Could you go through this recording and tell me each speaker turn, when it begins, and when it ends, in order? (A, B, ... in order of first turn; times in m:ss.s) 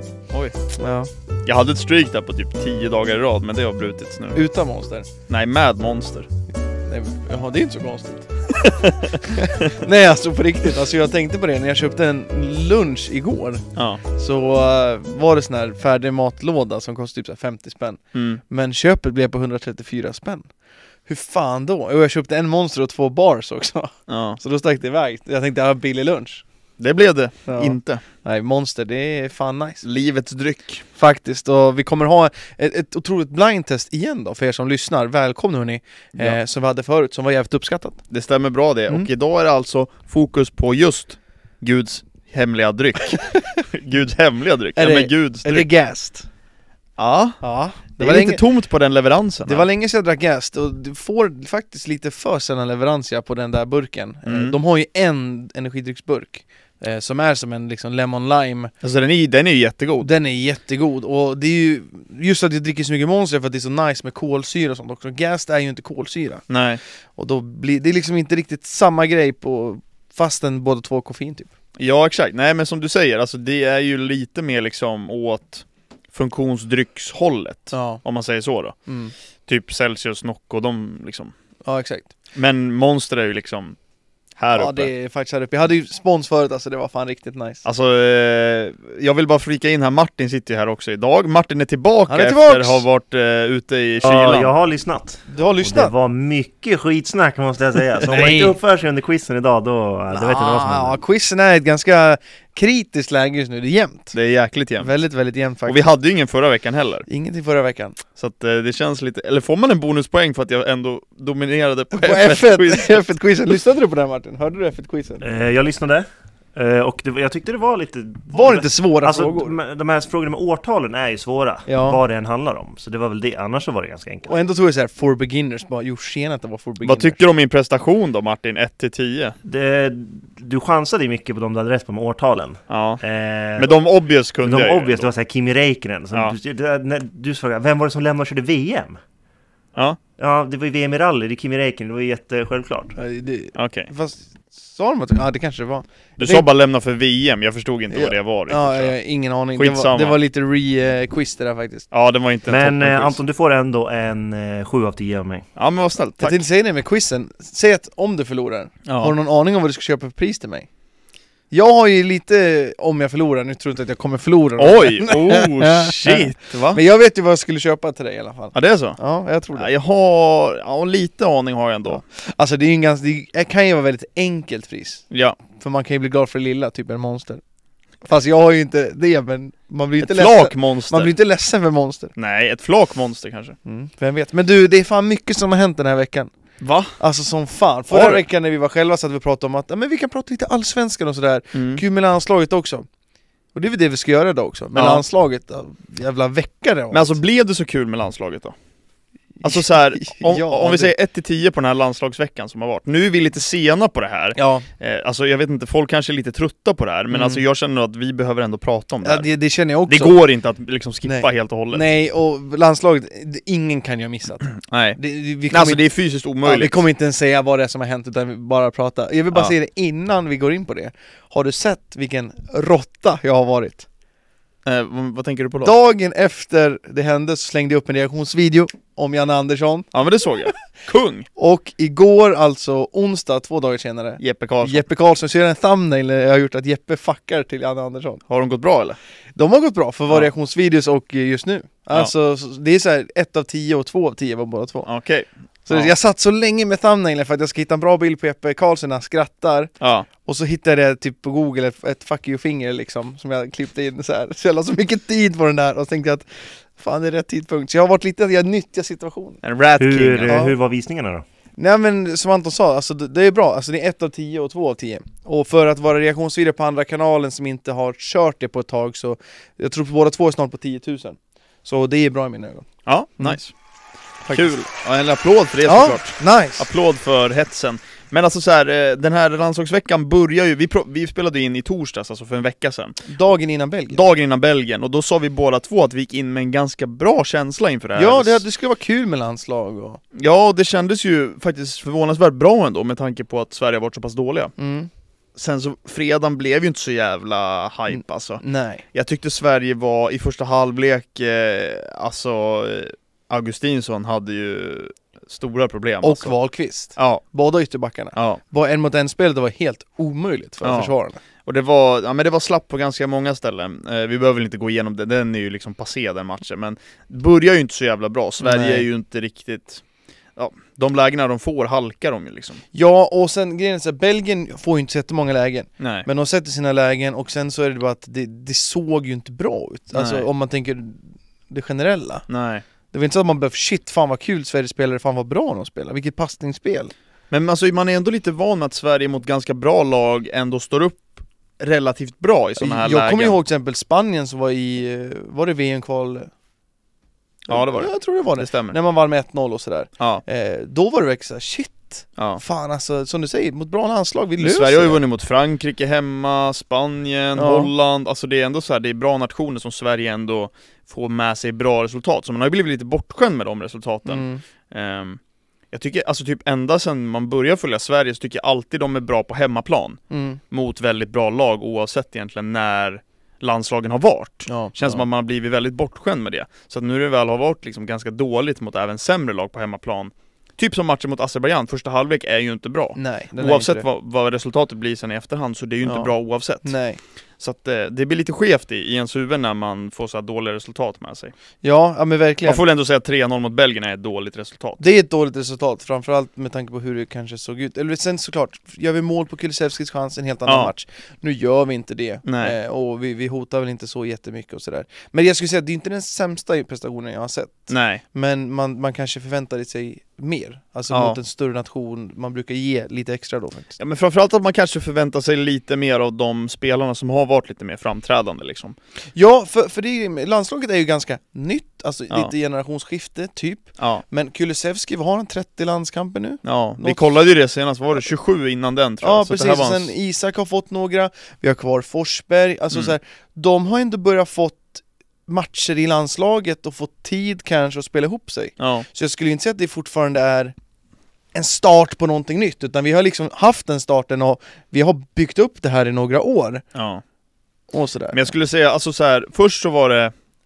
0:00.8-0:01.1 A
0:01.4-0:04.4 B
0:04.4-0:05.1 A
0:05.3-0:06.3 B
0:06.8-0:08.6 A
0:08.6-0:09.0 B
0:09.3-0:20.5 A
0:13.8-0:14.0 B
0:18.1-0:18.4 B
0:21.0-0:26.4 A
0:24.1-0:24.4 B
0:26.8-0:28.0 B
0:27.4-0:29.8 A
0:29.8-0:30.8 B
0:31.0-0:38.0 A
0:38.1-0:45.7 B
0:43.1-0:43.4 A
0:44.8-0:46.3 A
0:47.0-0:49.7 B
0:47.4-0:48.4 A
0:49.4-0:58.7 A
0:54.2-0:54.5 B
0:58.8-1:00.1 B
1:00.0-1:11.5 A
1:06.5-1:06.8 B
1:11.8-1:18.9 B
1:17.7-1:18.0 A
1:18.9-1:19.1 A
1:19.4-1:21.3 B
1:21.6-1:22.1 A
1:22.3-1:23.8 B
1:24.4-1:24.9 B
1:24.5-1:27.6 A
1:27.6-1:34.5 B
1:32.1-1:32.8 A
1:34.0-1:41.0 C
1:35.3-1:35.9 A
1:38.1-1:38.6 A
1:40.1-1:44.2 A
1:44.1-1:45.0 B
1:44.8-1:45.8 A
1:45.7-1:47.1 B
1:47.1-1:48.0 A
1:48.2-1:53.0 B
1:51.9-1:55.2 A
1:55.2-2:04.4 C
1:58.3-1:59.6 A
2:01.7-2:02.0 A
2:04.3-2:07.2 A
2:06.8-2:09.4 B
2:09.4-2:13.7 C
2:12.7-2:13.0 B
2:13.6-2:15.1 B
2:14.4-2:19.0 C
2:20.2-2:22.9 C
2:23.0-2:26.4 A
2:23.6-2:23.9 B
2:26.2-2:30.2 B
2:27.9-2:31.9 A
2:31.9-2:33.2 B
2:32.5-2:35.4 C
2:35.6-2:36.4 B
2:36.2-2:40.7 A
2:38.8-2:39.1 B
2:41.5-2:49.7 A
2:44.6-2:46.8 B
2:48.5-2:52.0 B
2:51.9-2:57.4 A
2:55.1-2:55.4 B
2:58.0-3:02.1 A
3:00.0-3:01.1 B
3:02.1-3:03.6 B
3:03.6-3:06.3 A
3:06.6-3:07.0 B
3:06.9-3:12.8 A
3:07.9-3:08.2 B
3:11.5-3:11.8 B
3:13.5-3:17.2 A
3:14.7-3:15.0 B
3:16.9-3:18.5 B
3:19.4-3:20.9 A
3:19.4-3:29.3 B
3:24.3-3:24.7 A
3:27.1-3:27.4 A
3:29.0-3:30.2 A
3:29.9-3:31.8 B
3:31.0-3:35.8 A
3:34.6-3:36.8 B
3:36.4-3:43.8 A
3:44.6-3:45.8 B
3:45.6-3:49.9 A
3:49.9-3:51.3 B
3:51.4-3:58.2 A
3:54.2-3:54.8 B
3:58.3-3:59.0 B
3:59.3-4:04.9 A
4:04.8-4:05.9 B
4:05.7-4:19.4 A
4:09.8-4:10.1 B
4:19.4-4:20.4 B
4:19.8-4:21.2 C
4:20.3-4:20.5 A
4:21.6-4:33.4 A
4:32.9-4:33.6 B
4:34.2-4:34.5 A
4:34.2-4:43.1 B
4:35.6-4:36.7 A
4:43.1-4:44.0 A
4:43.9-4:48.4 B
4:48.0-4:50.0 A
4:50.1-4:54.5 B
4:54.6-4:54.9 A
4:55.4-5:07.2 B
4:57.9-4:58.8 A
5:06.0-5:11.2 A
5:08.1-5:08.4 B
5:10.6-5:22.6 B
5:18.4-5:18.9 A
5:22.7-5:32.3 A
5:25.8-5:26.1 B
5:29.9-5:30.3 B
5:32.3-5:32.6 B
5:32.9-5:36.9 A
5:37.3-5:43.4 B
5:42.6-5:46.3 A
5:47.5-5:48.8 B
5:47.5-5:55.0 A
5:54.4-6:26.8 B
5:57.4-5:57.7 A
6:04.1-6:04.4 A
6:10.1-6:10.4 A
6:14.5-6:15.1 A
6:22.9-6:23.8 A
6:25.8-6:27.0 A
6:27.4-6:31.3 B
6:31.6-6:32.6 A
6:32.4-6:34.8 B
6:34.8-6:53.8 A
6:42.2-6:42.6 B
6:47.7-6:48.0 B
6:50.9-6:51.2 B
6:53.8-6:58.8 B
6:59.1-7:07.0 A
7:03.8-7:04.0 B
7:06.4-7:09.9 B
7:09.0-7:20.6 A
7:18.6-7:18.9 B
7:21.3-7:26.6 A
7:26.7-7:27.0 B
7:27.7-7:28.3 A
7:28.1-7:30.1 B